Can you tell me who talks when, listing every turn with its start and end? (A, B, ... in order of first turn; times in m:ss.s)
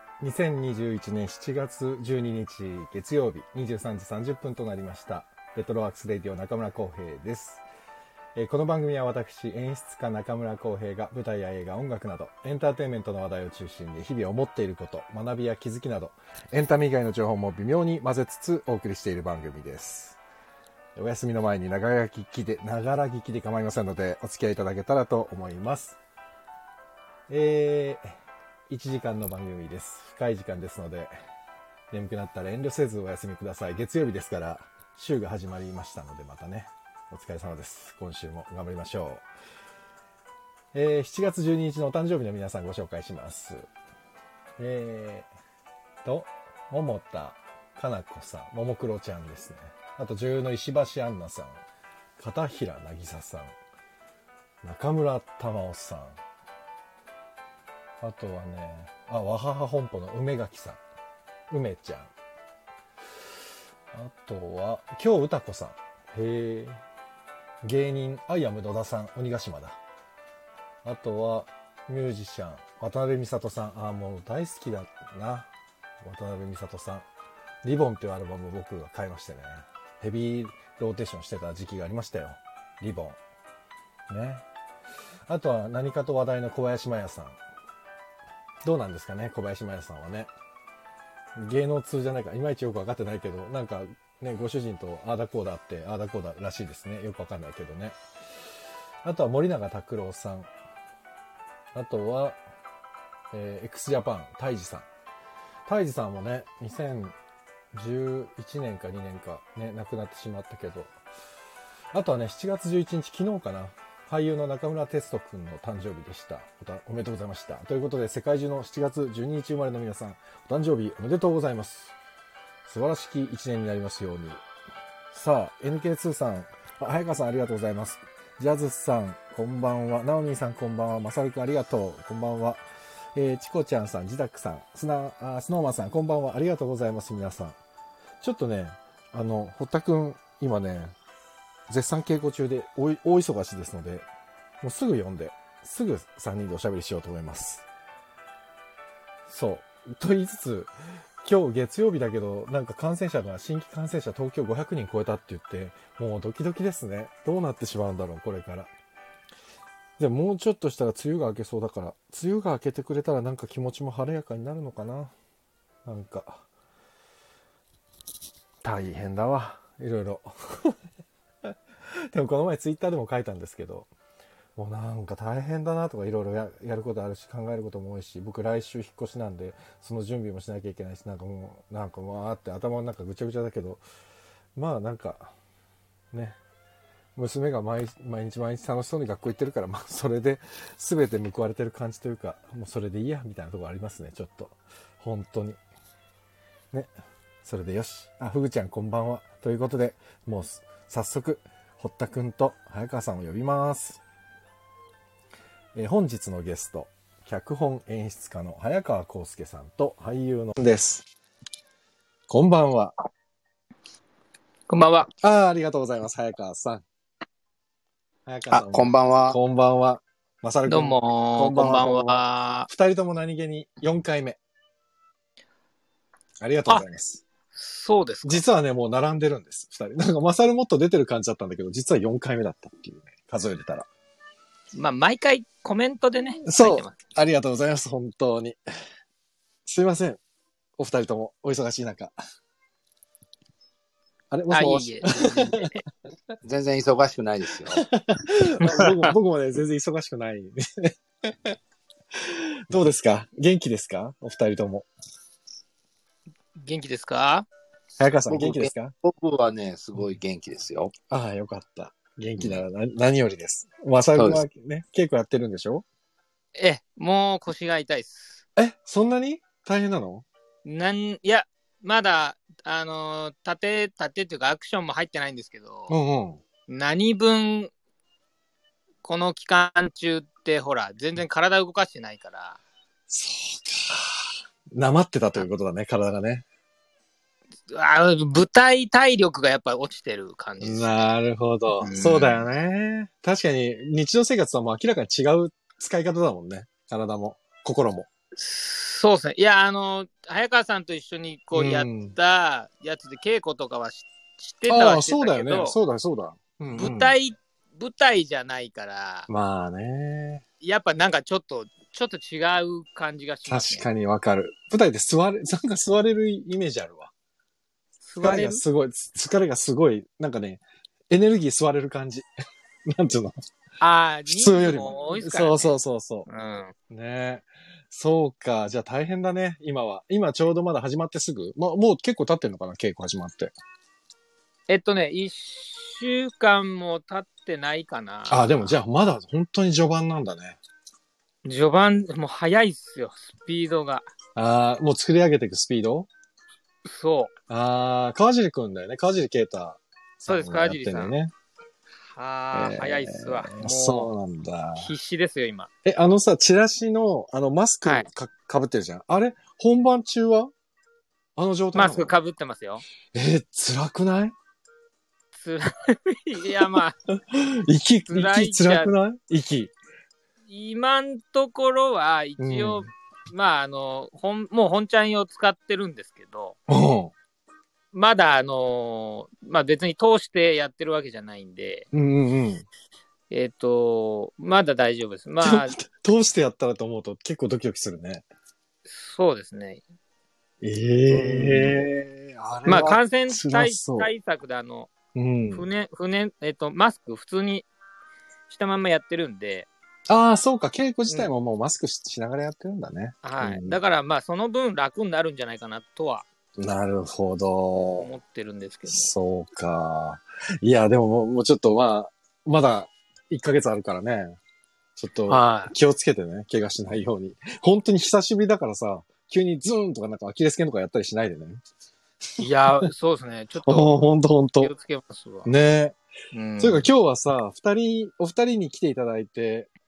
0:00.2-0:07.6 A
0:08.4-0:20.2 A
0:21.0-0:26.0 A
0:27.3-0:28.2 A
0:28.7-0:31.1 A
0:31.9-0:39.2 A
0:40.7-0:43.6 A
0:44.6-0:45.3 A
0:46.0-0:51.6 A
0:52.2-0:53.5 A
0:54.6-0:56.2 A
0:58.0-1:00.8 A
1:01.5-1:02.1 A
1:03.9-1:06.8 A
1:07.6-1:09.8 A
1:10.8-1:15.5 A
1:16.0-1:17.0 A
1:17.6-1:23.2 A
1:24.1-1:24.4 A
1:25.2-1:27.4 A
1:28.6-1:30.3 A
1:31.4-1:37.9 A
1:39.0-1:40.5 A
1:41.7-1:42.4 A
1:43.3-1:44.8 A
1:45.7-1:47.2 A
1:47.7-1:50.9 A
1:51.9-2:01.9 A
2:02.6-2:04.4 A
2:05.1-2:12.6 A
2:13.1-2:17.6 A
2:18.2-2:20.9 A
2:21.7-2:24.1 A
2:24.6-2:27.6 A
2:29.3-2:30.7 A
2:31.2-2:38.7 A
2:40.0-2:45.1 A
2:45.8-2:46.4 A
2:48.6-2:50.8 A
2:52.1-2:53.9 A
2:54.6-3:03.8 A
3:04.6-3:05.3 A
3:06.1-3:06.4 A
3:07.2-3:15.6 A
3:17.4-3:24.0 A
3:25.7-3:31.1 A
3:32.3-3:32.9 A
3:34.7-3:35.1 B
3:35.2-3:36.8 A
3:38.2-3:44.4 A
3:38.5-3:39.4 C
3:40.7-3:42.7 B
3:46.4-3:47.2 A
3:47.5-3:48.4 B
3:48.2-3:53.9 A
3:54.7-3:57.0 B
3:56.4-3:58.6 A
3:59.6-4:00.2 A
4:00.8-4:02.1 A
4:04.3-4:05.8 A
4:04.5-4:05.8 B
4:06.4-4:07.8 C
4:07.8-4:11.6 A
4:08.6-4:09.1 B
4:12.2-4:14.9 A
4:16.6-4:17.5 B
4:18.0-4:18.9 A
4:18.3-4:20.9 C
4:21.1-4:25.8 A
4:22.4-4:22.6 C
4:24.2-4:24.4 C
4:26.6-4:28.4 B
4:28.6-4:30.2 A
4:30.6-4:36.0 B
4:35.9-4:36.4 A
4:36.7-4:37.7 B
4:39.0-4:42.6 B
4:43.1-4:44.2 A
4:44.7-4:46.4 A
4:47.7-4:51.0 B
4:50.6-4:58.1 A
4:51.7-4:52.4 B
4:58.4-5:05.8 B
5:01.5-5:02.1 A
5:04.7-5:07.1 A
5:06.8-5:09.3 B
5:09.3-5:10.4 A
5:10.6-5:13.9 B
5:13.5-5:17.1 A
5:18.0-5:18.6 B
5:18.2-5:22.3 A
5:22.9-5:23.4 A
5:23.8-5:25.7 B
5:24.3-5:26.3 A
5:26.3-5:26.7 B
5:26.9-5:33.5 A
5:34.7-5:38.7 B
5:38.3-5:40.6 A
5:41.4-5:44.0 B
5:44.4-5:46.1 A
5:46.8-5:47.3 B
5:47.5-5:51.3 A
5:50.3-5:51.1 B
5:52.2-5:54.1 B
5:52.5-5:54.9 A
5:54.8-5:55.7 B
5:55.8-6:00.5 A
6:01.4-6:02.2 A
6:01.7-6:02.8 B
6:03.1-6:04.4 A
6:05.3-6:06.9 B
6:07.3-6:09.7 A
6:08.1-6:08.9 B
6:10.5-6:16.6 B
6:12.4-6:12.9 A
6:16.7-6:17.1 A
6:17.9-6:21.9 B
6:21.9-6:22.6 A
6:23.3-6:25.8 B
6:25.4-6:28.3 A
6:28.8-6:29.8 B
6:30.6-6:34.1 A
6:31.1-6:31.8 B
6:32.7-6:34.9 B
6:35.1-6:35.6 A
6:35.5-6:37.7 B
6:38.5-6:39.7 B
6:40.1-6:43.8 A
6:43.2-6:46.3 B
6:46.6-6:48.1 A
6:48.0-6:49.1 B
6:48.9-6:54.4 A
6:55.0-7:01.6 A
6:55.3-6:55.7 B
7:02.4-7:04.0 B
7:03.6-7:04.7 A
7:04.6-7:05.5 B
7:05.4-7:06.0 A
7:06.3-7:06.8 B
7:06.6-7:09.7 A